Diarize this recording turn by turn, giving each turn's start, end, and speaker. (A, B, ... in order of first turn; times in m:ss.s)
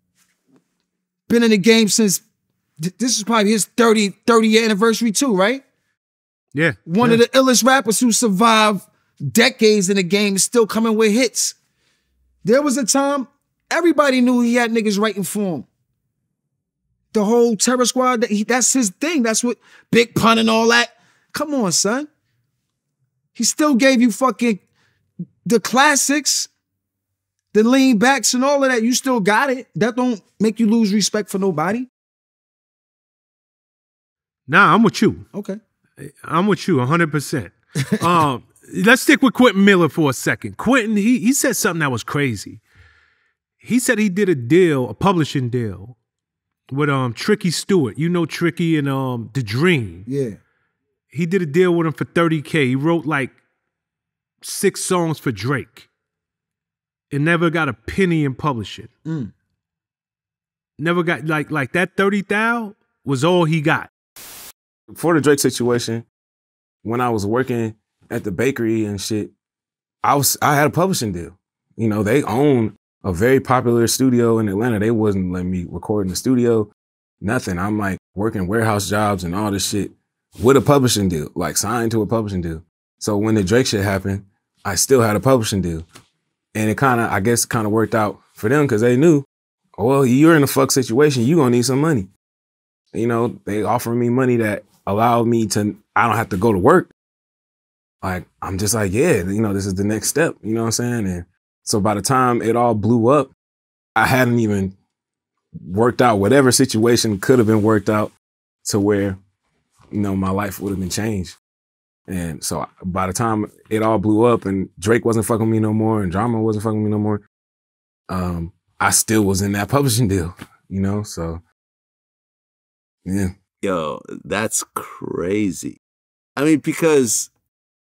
0:01.3-0:02.2 A
0:02.8-0:05.6 A
0:06.5-0:07.2 B
0:06.9-0:11.6 A
0:12.4-0:15.7 A
0:17.1-0:22.1 A
0:23.4-0:24.6 A
0:25.4-0:26.5 A
0:27.5-0:31.9 A
0:34.5-0:35.2 B
0:35.3-0:35.6 A
0:36.0-0:42.6 B
0:43.6-0:46.0 B
0:46.7-0:50.1 B
0:50.1-0:50.4 A
0:51.1-0:53.4 B
0:54.4-0:55.9 B
0:57.1-0:58.9 B
0:59.1-0:59.3 A
1:00.8-1:03.9 B
1:04.9-1:06.1 C
1:06.8-1:09.3 C
1:10.0-1:16.7 C
1:17.2-1:25.8 C
1:26.5-1:29.3 C
1:29.8-1:32.1 C
1:32.9-1:36.9 C
1:38.0-1:43.3 C
1:44.0-1:44.7 C
1:45.6-1:48.1 C
1:48.6-1:49.2 C
1:49.9-1:51.4 C
1:52.1-1:57.2 C
1:58.1-2:01.4 C
2:03.0-2:03.4 C
2:03.6-2:05.8 D
2:06.4-2:07.3 D